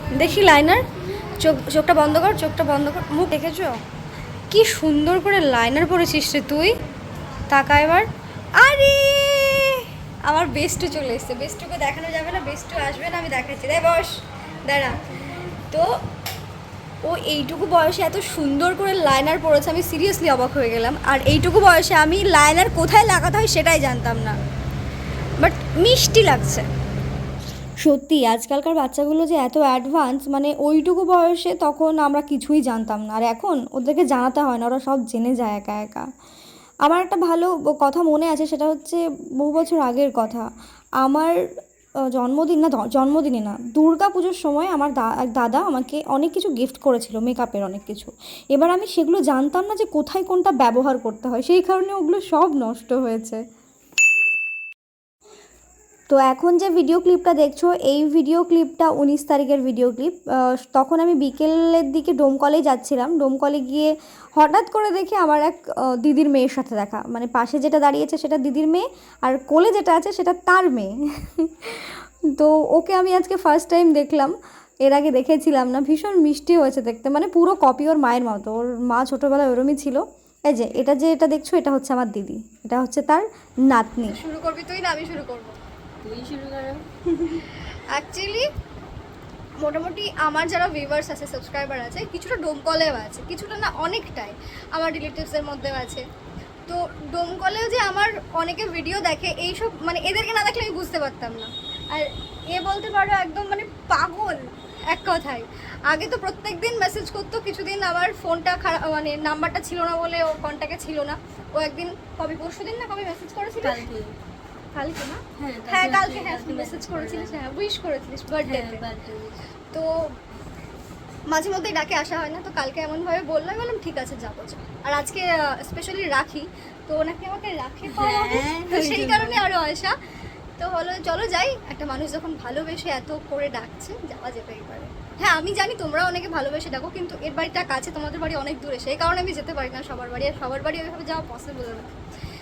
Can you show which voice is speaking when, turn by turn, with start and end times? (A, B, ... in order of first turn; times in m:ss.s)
0:00.1-0:03.8 A
0:04.5-0:06.7 A
0:07.5-0:08.1 A
0:08.6-0:15.9 A
0:17.1-0:24.4 A
0:25.4-0:26.7 A
0:27.8-0:36.1 B
0:36.9-0:40.5 B
0:41.0-0:41.3 B
0:42.2-0:53.4 B
0:56.1-1:14.3 B
1:14.9-1:24.2 B
1:24.0-1:25.6 A
1:26.0-1:27.4 C
1:27.9-1:28.4 A
1:29.6-1:36.0 A
1:36.7-1:53.8 A
1:53.6-1:54.1 C
1:54.8-1:58.8 A
1:55.4-1:57.4 C
1:58.4-1:59.4 C
2:01.3-2:10.0 A
2:07.8-2:09.4 C
2:10.6-2:21.9 A